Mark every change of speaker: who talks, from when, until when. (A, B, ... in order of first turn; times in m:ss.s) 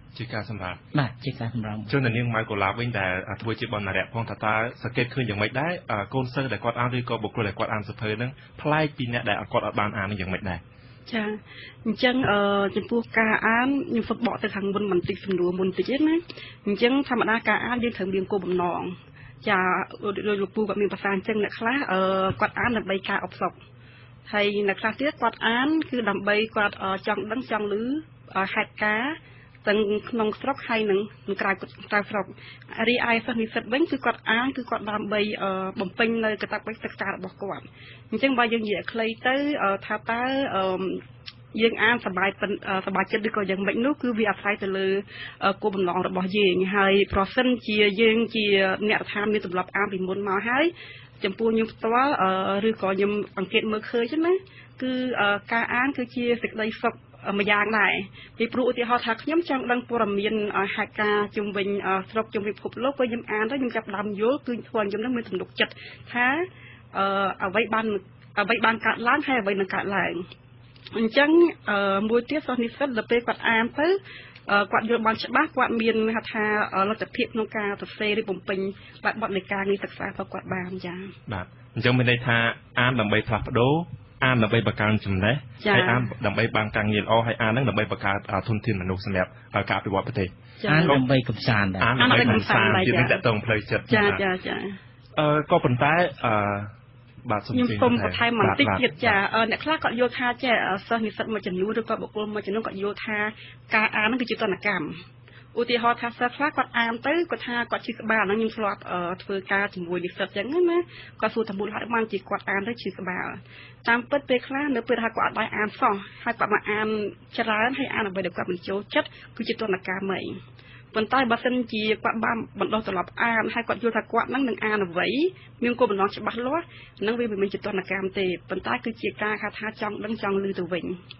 0:00.1-0:00.8 A
0:00.9-0:01.9 B
0:01.9-0:10.6 A
0:11.1-0:23.5 C
0:24.3-0:41.0 C
0:41.5-1:10.2 C
1:10.9-1:21.1 C
1:21.3-1:30.3 A
1:25.6-1:26.1 C
1:30.6-1:31.0 C
1:30.7-1:31.9 B
1:31.8-1:34.2 A
1:32.0-1:33.2 C
1:33.9-1:34.8 C
1:35.2-1:36.7 A
1:37.2-1:39.2 A
1:37.5-1:45.0 C
1:45.5-2:00.4 C
2:00.9-2:11.0 C